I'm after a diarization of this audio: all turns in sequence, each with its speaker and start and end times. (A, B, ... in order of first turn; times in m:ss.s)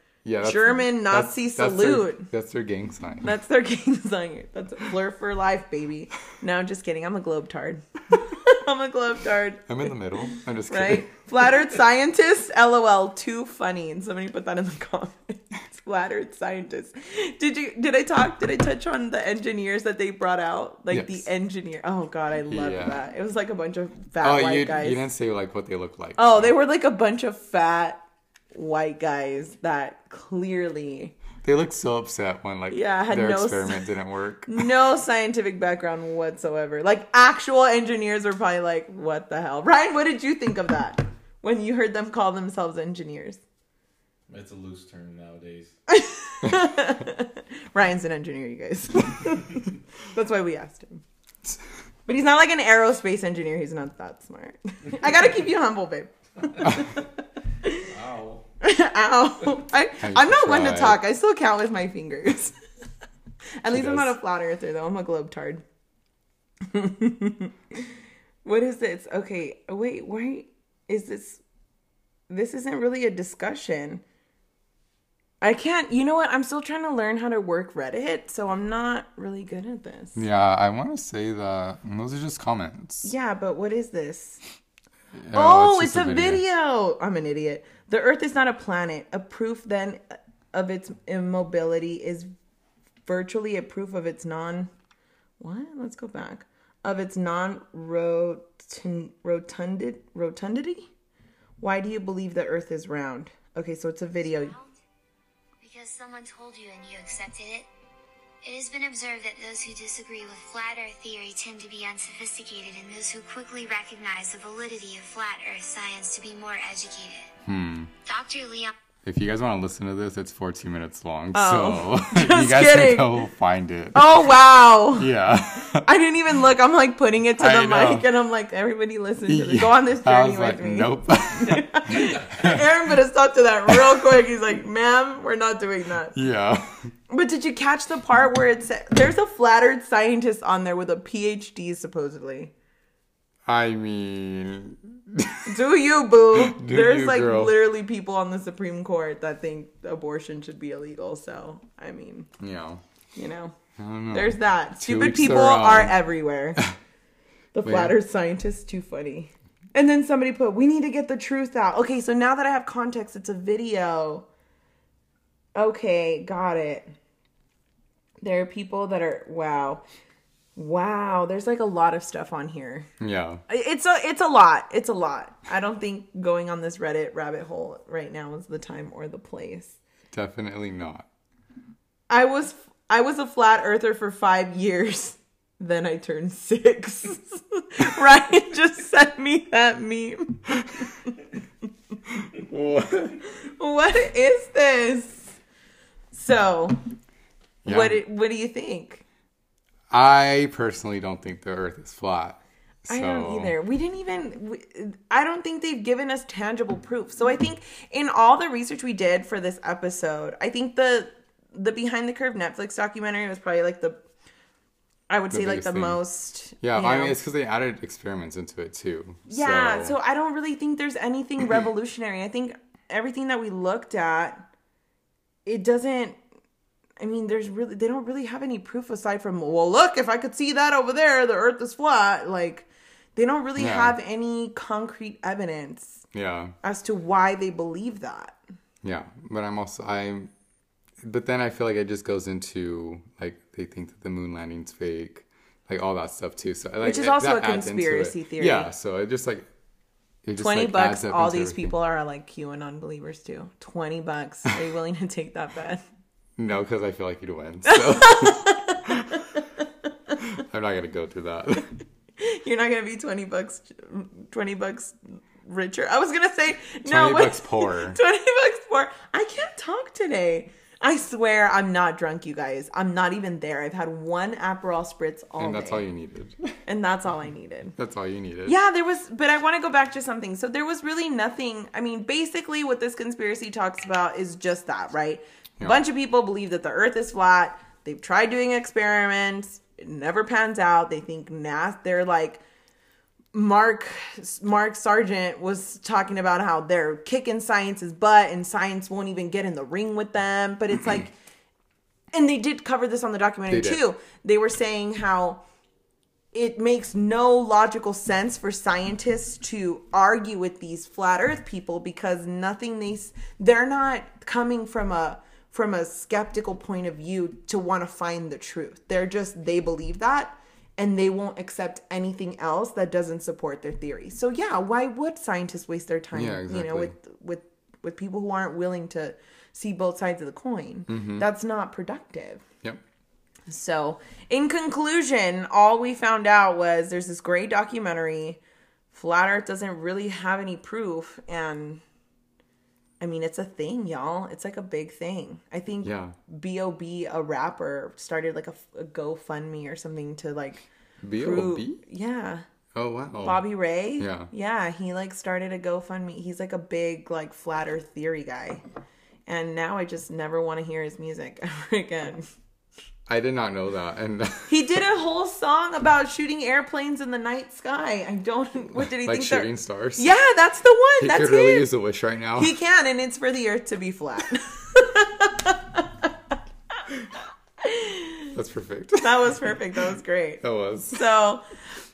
0:00.2-0:03.3 A
0:00.4-0:02.3 B
0:03.2-0:09.7 B
0:09.7-0:11.1 A
0:10.7-0:25.0 B
0:20.9-0:21.3 A
0:22.5-0:23.0 A
0:24.2-0:26.5 A
0:26.2-0:28.0 B
0:28.5-0:31.2 B
0:31.4-0:34.6 A
0:32.7-0:33.9 B
0:34.5-0:43.4 B
0:44.3-0:45.7 C
0:45.9-0:51.0 B
0:52.1-0:57.1 B
0:57.6-0:57.9 B
0:57.9-0:58.4 C
0:58.6-1:02.6 B
1:00.0-1:01.0 A
1:03.6-1:05.6 B
1:03.7-1:04.1 A
1:06.6-1:07.9 B
1:08.4-1:11.4 B
1:12.3-1:14.0 B
1:15.4-1:20.2 B
1:20.2-1:23.1 A
1:23.0-1:24.4 B
1:25.2-1:26.4 A
1:25.3-1:32.3 B
1:33.0-1:34.7 B
1:35.4-1:40.9 B
1:41.6-1:44.5 B
1:44.2-1:44.8 D
1:45.6-1:47.7 D
1:48.4-1:57.3 D
1:57.4-1:57.9 A
1:58.0-1:58.7 D
1:59.0-2:04.1 A
2:01.3-2:03.2 B
2:03.9-2:05.1 B
2:05.0-2:05.9 A
2:05.8-2:16.2 B
2:07.4-2:08.0 A
2:09.3-2:12.6 A
2:13.7-2:13.9 A
2:16.1-2:16.9 A
2:17.1-2:22.5 B
2:23.4-2:25.6 A
2:25.4-2:32.3 B
2:26.3-2:27.6 A
2:32.4-2:32.8 A
2:33.2-2:33.6 B
2:33.8-2:36.0 A
2:34.1-2:36.7 B
2:37.5-2:44.3 B
2:37.6-2:38.0 A
2:45.5-2:46.9 B
2:48.2-2:49.8 B
2:50.6-2:52.9 B
2:53.0-2:53.4 A
2:53.5-2:59.8 B
3:00.1-3:01.1 A
3:02.1-3:11.2 B
3:10.6-3:10.9 A
3:12.1-3:13.2 A
3:13.3-3:15.4 B
3:16.1-3:16.8 B
3:17.6-3:19.0 B
3:17.6-3:18.0 A
3:19.9-3:23.5 A
3:22.9-3:34.0 B
3:35.1-3:37.2 B
3:35.3-3:36.0 A
3:36.6-3:40.0 A
3:39.3-3:44.5 B
3:45.4-3:46.2 B
3:47.0-3:56.0 B
3:53.6-3:54.0 A
3:56.1-3:56.5 A
3:56.6-3:58.4 B
3:58.8-4:00.3 A
4:01.0-4:09.5 A
4:06.8-4:08.7 B
4:10.2-4:11.7 A
4:10.4-4:15.8 B
4:16.4-4:19.2 A
4:17.7-4:19.4 B
4:20.2-4:21.7 A
4:22.2-4:35.8 B
4:26.8-4:28.0 A
4:35.4-4:36.6 A
4:36.6-4:37.8 B
4:37.8-4:38.6 A
4:38.4-4:52.4 B
4:53.3-5:01.1 B
5:02.1-5:05.4 B
5:03.5-5:03.8 A
5:06.3-5:32.4 B
5:26.1-5:26.9 A
5:30.9-5:31.2 A
5:33.5-5:38.4 B
5:38.9-5:41.8 B
5:43.0-5:52.4 B
5:45.8-5:46.2 A
5:51.0-5:51.8 A
5:52.7-5:53.4 A
5:53.2-5:58.6 B
5:54.0-5:54.3 A
5:59.3-6:02.3 B
6:03.1-6:04.8 A
6:04.5-6:11.6 B
6:08.8-6:10.1 A
6:11.0-6:12.5 A
6:12.4-6:16.1 B
6:17.6-6:18.3 B
6:18.3-6:19.1 A
6:19.0-6:21.4 B
6:20.4-6:21.0 A